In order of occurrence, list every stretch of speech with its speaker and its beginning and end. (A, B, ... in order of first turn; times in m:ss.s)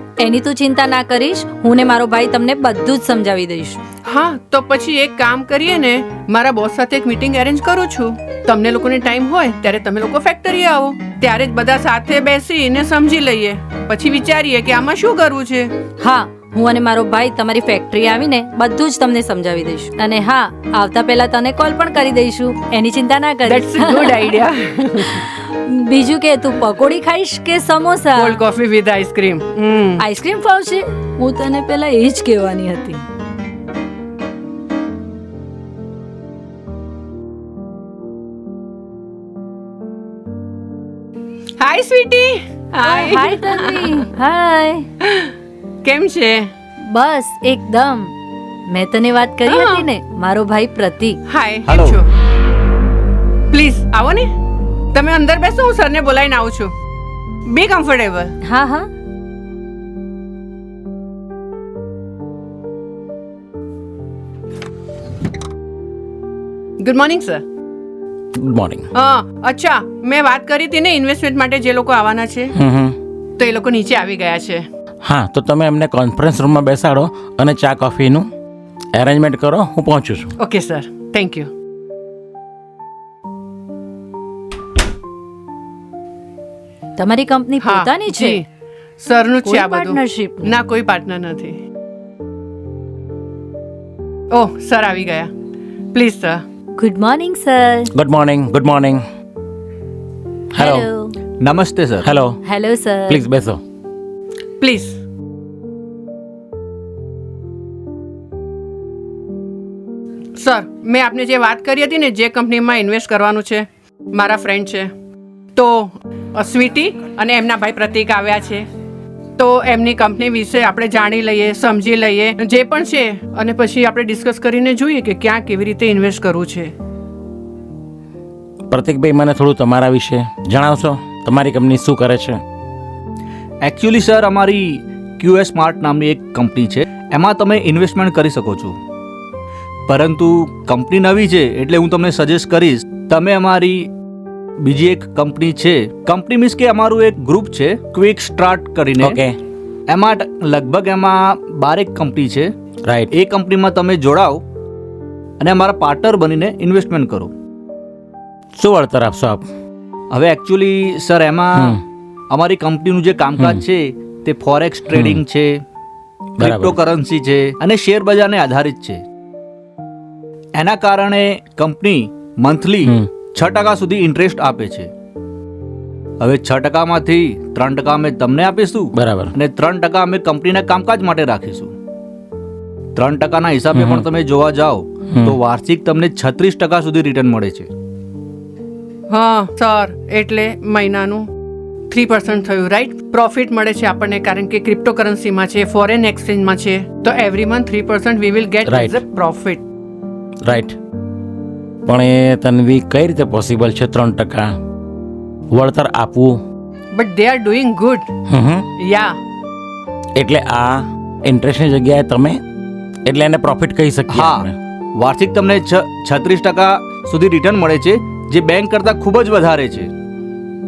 0:00.2-0:03.8 A
0:04.1-0:15.7 B
0:16.0-0:24.4 A
0:23.5-0:25.2 B
0:25.0-0:28.4 A
0:28.2-0:30.0 B
0:30.0-0:33.0 A
0:41.6-0:44.0 B
0:42.8-0:44.9 A
0:45.8-0:46.5 B
0:46.8-0:48.1 A
0:48.7-0:51.2 A
0:49.5-0:49.9 B
0:51.3-0:52.1 B
0:51.6-0:52.0 C
0:53.5-0:54.3 B
0:54.9-0:56.7 B
0:57.5-0:58.3 B
0:58.4-0:58.9 A
1:06.8-1:07.4 B
1:08.4-1:08.9 D
1:08.9-1:12.5 B
1:12.5-1:13.0 D
1:13.4-1:14.6 B
1:15.0-1:18.3 D
1:19.0-1:20.3 D
1:20.4-1:21.5 B
1:27.0-1:28.4 A
1:27.6-1:28.5 B
1:29.0-1:31.6 B
1:29.4-1:30.5 A
1:34.3-1:35.3 B
1:35.9-1:36.4 B
1:36.8-1:37.9 A
1:37.9-1:39.0 D
1:40.5-1:40.9 D
1:40.6-1:41.1 A
1:41.4-1:42.1 C
1:42.0-1:42.4 D
1:42.4-1:43.2 A
1:43.1-1:43.6 D
1:44.6-1:45.0 B
1:50.4-1:54.9 B
1:55.6-1:58.7 B
1:59.4-2:06.7 B
2:08.7-2:12.4 D
2:13.6-2:18.8 C
2:19.9-2:23.9 C
2:24.6-2:29.2 C
2:29.0-2:29.4 D
2:29.9-2:32.5 C
2:33.1-2:34.4 C
2:35.4-2:37.3 C
2:38.6-2:39.5 D
2:40.1-2:41.8 C
2:42.3-2:45.5 C
2:44.9-2:45.2 D
2:46.4-2:46.8 D
2:46.4-2:49.0 C
2:50.6-2:54.9 C
2:56.2-3:01.7 C
2:59.0-2:59.3 D
3:03.0-3:07.7 C
3:03.7-3:04.1 D
3:05.1-3:05.4 D
3:09.1-3:11.3 B
3:11.9-3:19.6 B
3:18.6-3:19.0 D
3:20.4-3:20.8 D
3:21.9-3:24.6 D
3:25.5-3:26.4 D
3:26.9-3:28.1 B
3:28.3-3:28.7 D
3:28.8-3:29.2 B
3:30.2-3:32.4 D
3:33.1-3:34.5 D
3:34.1-3:34.5 C
3:35.0-3:39.9 C